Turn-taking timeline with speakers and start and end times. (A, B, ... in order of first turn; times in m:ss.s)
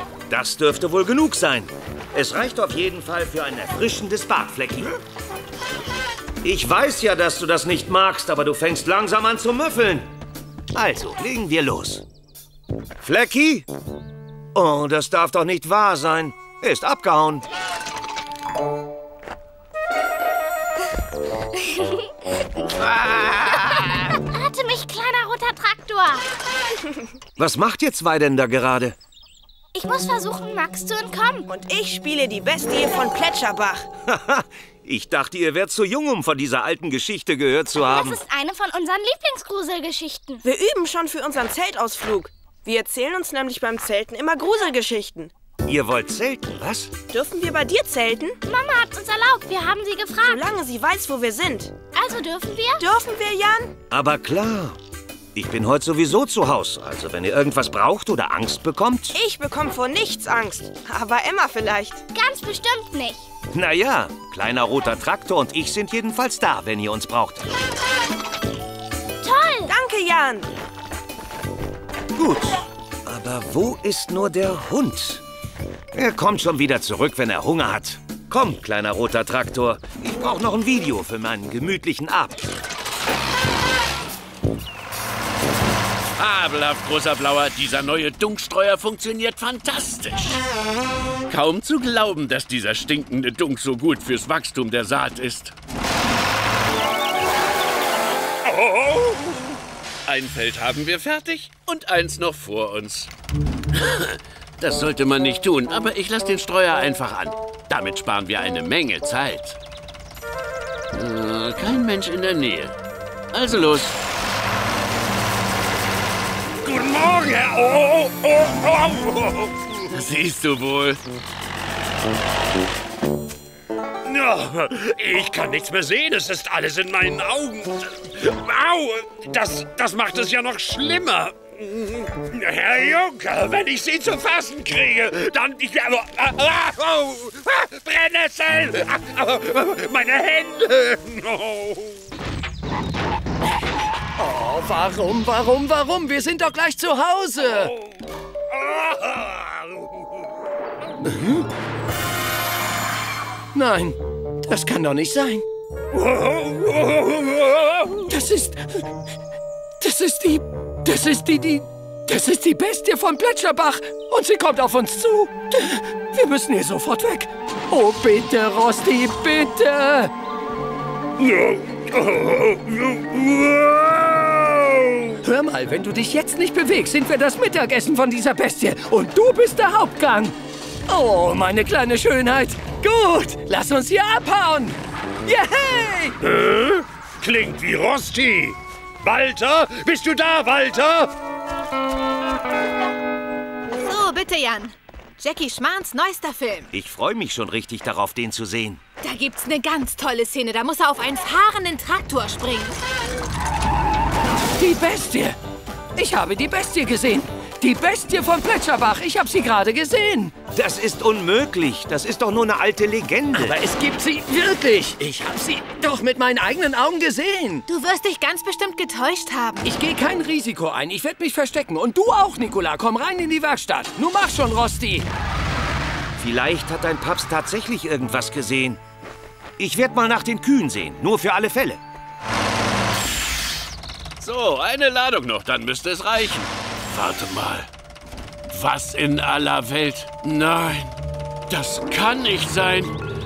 0:00.3-0:04.9 A
0:06.4-0:10.1 A
0:10.7-0:12.0 A
0:13.0-0:13.7 A
0:14.5-0:17.5 A
0:21.6-0:22.1 B
0:22.8-0:23.8 A
0:23.7-0:26.2 B
0:27.4-0:29.0 A
0:29.7-0:31.5 B
0:31.5-0:33.9 C
0:34.1-0:38.2 A
0:37.8-0:40.4 B
0:40.4-0:45.3 C
0:45.6-0:46.9 A
0:47.1-0:48.4 C
0:48.4-0:50.4 B
0:50.2-0:51.7 C
0:51.9-0:52.8 B
0:52.8-0:53.8 C
0:53.9-0:54.8 A
0:55.3-0:59.2 A
0:59.1-1:02.0 C
1:02.1-1:03.3 B
1:03.5-1:07.4 A
1:09.2-1:09.7 B
1:09.7-1:10.5 C
1:12.1-1:15.2 A
1:15.9-1:22.4 A
1:26.2-1:30.4 D
1:31.3-1:35.5 D
1:38.4-1:39.4 E
1:40.1-1:43.1 D
1:43.7-1:49.6 D
1:50.9-1:52.7 D
1:53.3-1:54.0 D
1:56.6-1:59.7 E
1:59.9-2:01.0 D
2:04.0-2:22.0 E
2:24.2-2:27.7 F
2:28.5-2:29.9 E
2:31.2-2:31.4 F
2:33.5-2:35.4 F
2:35.9-2:38.1 E
2:38.1-2:38.8 F
2:39.8-2:50.1 F
2:51.2-2:55.2 E
2:55.2-3:00.4 F
3:00.9-3:06.2 F
3:06.2-3:11.1 E
3:13.7-3:16.7 G
3:16.7-3:18.8 A
3:19.0-3:22.8 G
3:24.4-3:25.4 F
3:26.0-3:30.3 F
3:30.5-3:33.6 A
3:33.3-3:37.6 F
3:37.7-3:39.7 G
3:39.6-3:45.0 F
3:46.2-3:48.8 A
3:49.6-3:51.8 A
3:54.2-3:57.7 D
3:58.5-4:00.9 D
4:01.5-4:03.0 D